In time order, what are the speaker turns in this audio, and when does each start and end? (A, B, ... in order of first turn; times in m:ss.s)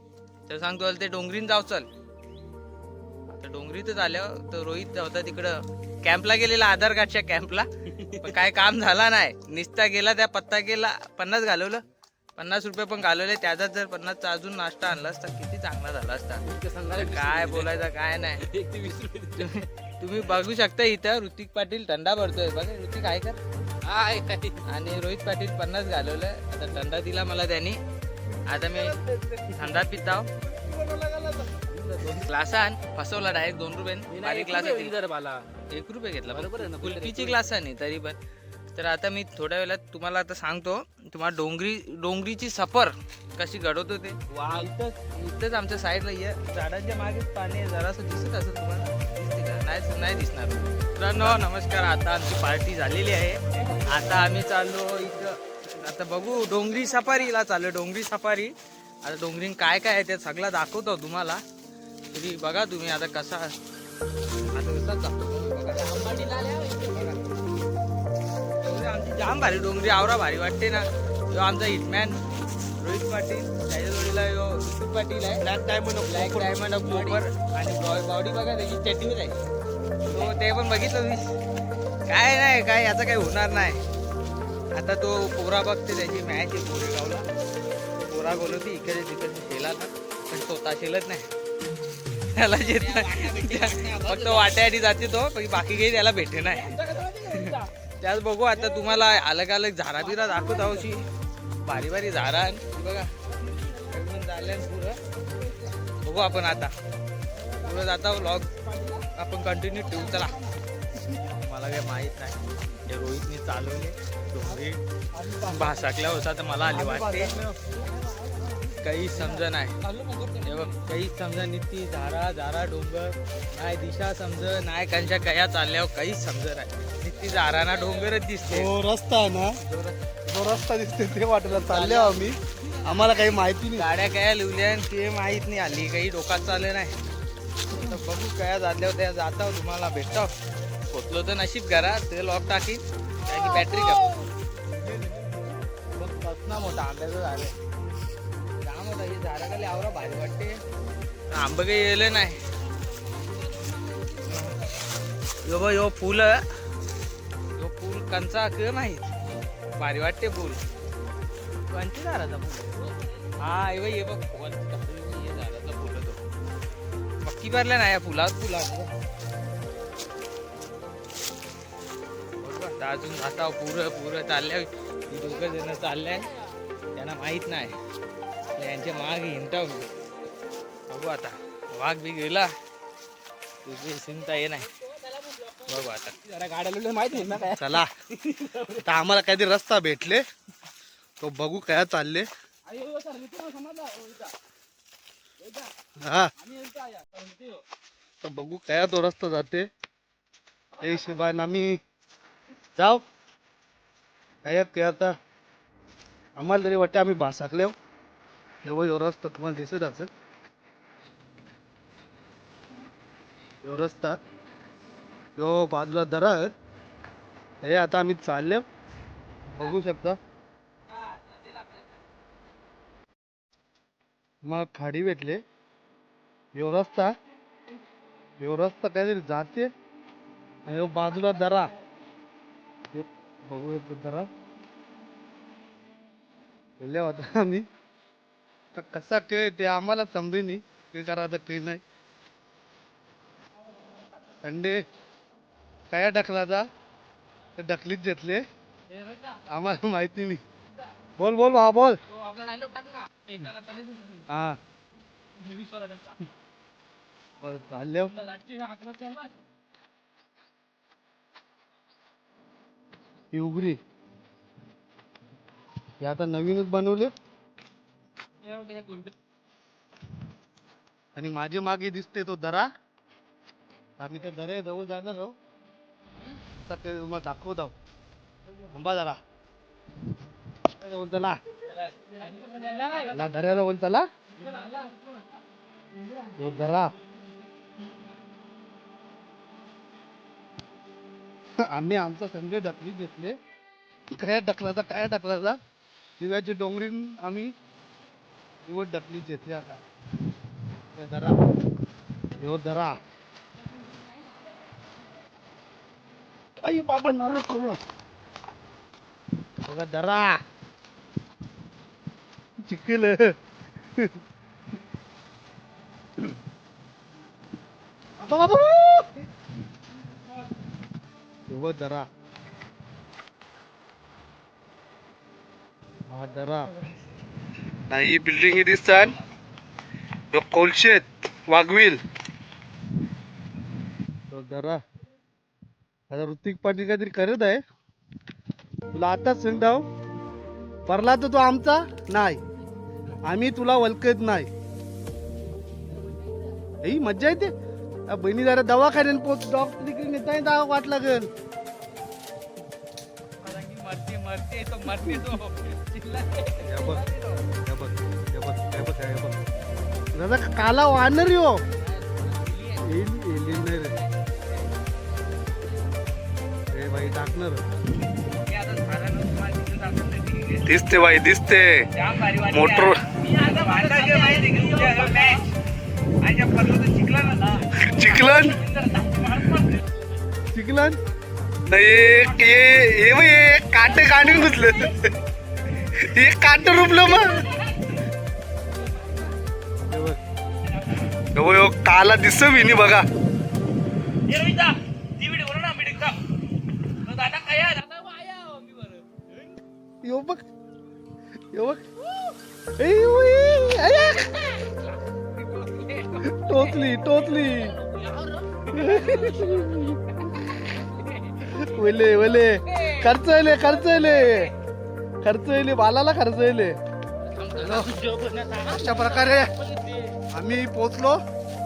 0:00.5-0:01.9 A
0:03.3-0:11.8 A
0:12.4-0:18.5 A
0:16.4-0:17.8 B
0:18.4-0:19.6 B
0:19.4-0:23.4 A
0:23.8-0:24.6 B
0:24.6-0:27.8 A
0:28.5-0:30.3 A
0:28.7-0:29.8 C
0:30.6-0:31.5 C
0:31.5-0:32.3 B
0:32.0-0:35.0 A
0:34.1-0:35.5 B
0:35.7-0:38.2 A
0:36.3-0:37.4 B
0:38.8-1:01.4 A
1:02.1-1:03.5 A
1:04.4-1:07.3 A
1:05.9-1:07.0 B
1:08.6-1:12.2 A
1:12.8-1:15.4 A
1:15.4-1:16.8 C
1:16.1-1:19.4 A
1:16.8-1:17.2 B
1:20.1-1:21.3 A
1:22.1-1:23.8 A
1:24.7-1:27.3 A
1:28.1-1:31.3 A
1:32.3-1:41.0 A
1:32.6-1:34.5 B
1:36.6-1:37.7 B
1:40.2-1:40.8 B
1:41.6-1:43.1 A
1:43.7-1:45.0 A
1:46.0-1:46.8 A
1:47.6-1:48.5 A
1:48.6-1:49.0 B
1:49.1-1:50.4 A
1:51.0-1:54.8 A
1:55.1-1:55.7 C
1:55.4-1:57.3 A
1:56.7-1:57.6 C
1:58.0-1:58.6 B
1:58.8-1:59.8 A
1:59.9-2:00.8 B
2:00.4-2:08.7 A
2:08.5-2:09.6 C
2:09.6-2:10.0 A
2:10.3-2:13.9 C
2:11.5-2:12.3 A
2:13.8-2:17.0 A
2:17.7-2:20.3 A
2:20.9-2:24.2 A
2:25.9-2:27.6 A
2:28.6-2:30.6 A
2:31.3-2:32.4 A
2:34.3-2:34.6 A
2:35.4-2:36.5 A
2:37.6-2:39.1 A
2:39.8-2:40.6 A
2:41.7-2:42.8 A
2:43.4-2:46.2 A
2:47.2-2:48.9 A
2:52.4-2:56.3 A
2:57.0-2:57.8 A
2:58.6-2:59.9 A
3:00.9-3:02.5 A
3:03.6-3:04.7 A
3:05.7-3:06.2 A
3:06.2-3:08.8 B
3:07.6-3:07.9 C
3:08.8-3:10.2 C
3:11.2-3:12.3 C
3:12.7-3:14.3 B
3:16.0-3:16.3 C
3:16.4-3:17.4 B
3:18.2-3:19.7 C
3:20.8-3:21.8 C
3:22.8-3:23.0 C
3:24.4-3:25.2 C
3:26.4-3:27.8 C
3:28.6-3:30.1 C
3:33.6-3:34.2 C
3:35.4-3:36.5 C
3:37.6-3:38.6 C
3:39.5-3:40.2 C
3:44.4-3:45.4 C
3:46.6-3:47.1 C
3:48.4-3:49.7 C
3:50.7-3:51.7 C
3:52.9-3:54.3 C
3:56.8-3:57.6 C
3:58.7-4:01.8 C
4:04.4-4:04.8 C
4:05.9-4:06.7 C
4:07.6-4:08.4 C
4:09.3-4:10.4 C
4:11.2-4:12.0 C
4:12.4-4:13.8 B
4:14.3-4:14.6 C
4:17.4-4:18.3 C
4:18.6-4:19.2 B
4:23.3-4:23.8 C
4:26.0-4:27.1 C
4:31.2-4:32.7 C
4:34.0-4:35.4 C
4:36.6-4:37.7 C
4:38.7-4:39.2 C
4:40.7-4:41.4 C
4:42.9-4:44.1 C
4:46.3-4:46.9 C
4:51.6-4:53.4 C
4:54.1-4:55.6 C
4:56.2-4:57.5 C
4:58.6-4:59.8 C
5:01.0-5:01.4 C
5:02.4-5:03.0 C
5:06.6-5:07.8 C
5:09.7-5:10.4 C
5:12.6-5:13.4 C
5:18.2-5:19.2 C
5:21.5-5:22.1 C
5:26.1-5:26.7 C
5:27.9-5:29.2 C
5:30.3-5:32.0 C
5:34.3-5:34.8 C
5:36.1-5:37.6 C
5:38.9-5:39.9 C
5:40.9-5:42.4 C
5:43.2-5:44.5 C
5:46.8-5:47.5 C
5:48.1-5:51.3 C
5:53.4-5:56.6 A
5:56.6-5:57.1 C
5:57.2-5:57.4 A
5:57.6-5:59.4 C
6:00.1-6:01.6 C
6:01.8-6:02.8 A
6:02.8-6:04.0 C
6:06.7-6:07.6 C
6:08.5-6:10.7 A
6:10.6-6:11.9 C
6:11.9-6:15.5 A
6:12.5-6:13.0 C
6:13.3-6:15.4 B
6:16.2-6:17.7 A
6:17.7-6:18.7 C
6:17.8-6:19.8 B
6:18.8-6:19.6 A
6:20.5-6:21.0 C
6:21.7-6:25.1 C
6:25.8-6:27.7 C
6:29.9-6:30.2 C
6:31.3-6:33.0 C
6:34.4-6:36.2 A
6:35.5-6:36.1 B
6:37.1-6:39.2 B
6:37.2-6:37.6 A
6:40.0-6:40.4 C
6:41.5-6:41.8 C
6:42.8-6:44.6 C
6:45.5-6:46.4 B
6:46.1-6:47.8 C
6:47.8-6:49.9 B
6:48.7-6:50.0 C
6:51.0-6:51.4 B
6:51.4-6:54.5 C
6:55.2-6:56.8 C
6:57.3-6:58.7 A
6:57.6-6:58.0 C
6:57.6-7:00.1 B
6:58.5-6:59.6 C
7:00.3-7:01.2 C